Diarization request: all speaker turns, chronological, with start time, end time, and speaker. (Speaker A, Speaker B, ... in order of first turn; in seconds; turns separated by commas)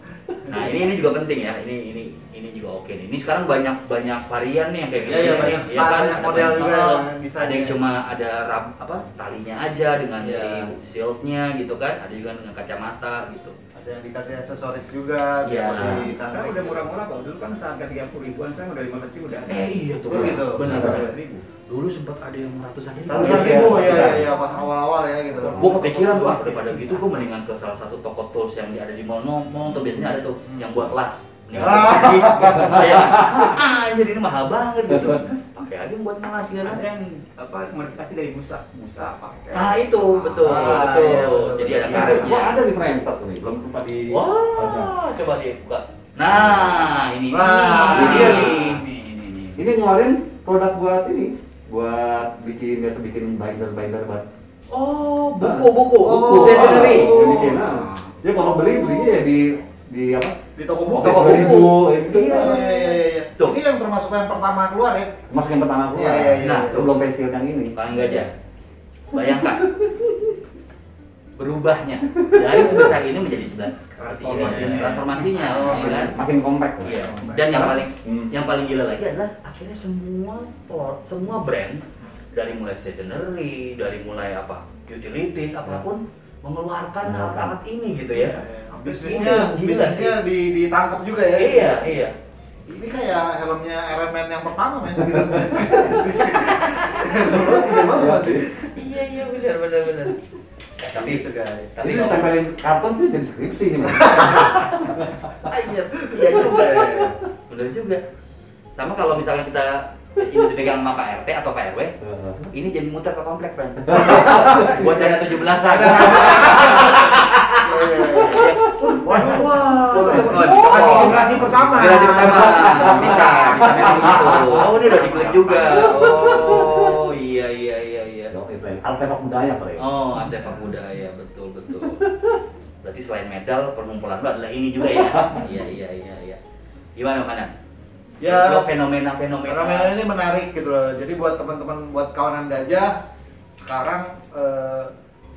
Speaker A: 0.4-13.6, Speaker B: 5.0-7.8, Speaker B: 10.2-10.7, Speaker B: 13.7-16.9, Speaker A: 15.4-16.1, Speaker C: 15.8-19.7, Speaker A: 19.5-24.3, Speaker B: 20.1-20.9, Speaker C: 20.3-21.4, Speaker D: 20.6-21.0, Speaker B: 23.1-26.7, Speaker D: 23.1-24.3, Speaker A: 25.5-36.8, Speaker C: 26.1-26.9, Speaker D: 31.5-33.5, Speaker B: 31.6-33.0, Speaker D: 34.9-35.2, Speaker C: 36.6-40.9, Speaker A: 39.5-42.6, Speaker B: 40.4-42.3, Speaker D: 41.8-44.9, Speaker A: 44.1-49.5, Speaker D: 46.2-46.9, Speaker B: 47.3-48.6, Speaker D: 47.9-48.8, Speaker C: 47.9-49.4, Speaker D: 49.5-54.2, Speaker A: 54.7-57.5, Speaker B: 56.0-57.6, Speaker D: 56.2-62.6, Speaker C: 56.6-58.1, Speaker B: 60.5-65.2, Speaker A: 60.9-63.6, Speaker D: 65.3-68.3, Speaker B: 65.9-66.9, Speaker A: 66.4-66.9, Speaker A: 67.7-68.3, Speaker A: 69.1-69.7, Speaker D: 69.8-70.1, Speaker A: 71.4-76.1, Speaker D: 72.2-73.0, Speaker C: 74.0-76.0, Speaker D: 74.3-78.3, Speaker B: 75.5-76.1, Speaker A: 76.8-88.4, Speaker B: 77.0-77.6, Speaker D: 87.0-87.6, Speaker C: 88.1-89.4, Speaker B: 88.7-91.9, Speaker A: 89.0-90.2, Speaker A: 91.3-92.1, Speaker B: 92.7-98.5, Speaker D: 95.4-95.6, Speaker A: 96.3-97.5, Speaker D: 97.3-98.5, Speaker A: 98.6-100.2, Speaker A: 100.8-102.3, Speaker B: 100.9-102.0, Speaker D: 101.8-105.3, Speaker B: 104.0-104.7, Speaker A: 105.4-108.0, Speaker B: 106.1-107.2, Speaker A: 108.8-112.0, Speaker D: 112.0-112.5, Speaker A: 112.5-128.3, Speaker D: 113.9-114.7, Speaker B: 113.9-126.6, Speaker D: 120.0-124.7, Speaker D: 125.7-127.0, Speaker D: 128.3-129.9, Speaker A: 129.8-132.0, Speaker A: 132.8-136.4, Speaker D: 134.9-135.4, Speaker A: 136.9-137.5, Speaker B: 138.2-138.7, Speaker A: 138.2-139.9, Speaker B: 139.4-142.9, Speaker B: 143.5-144.9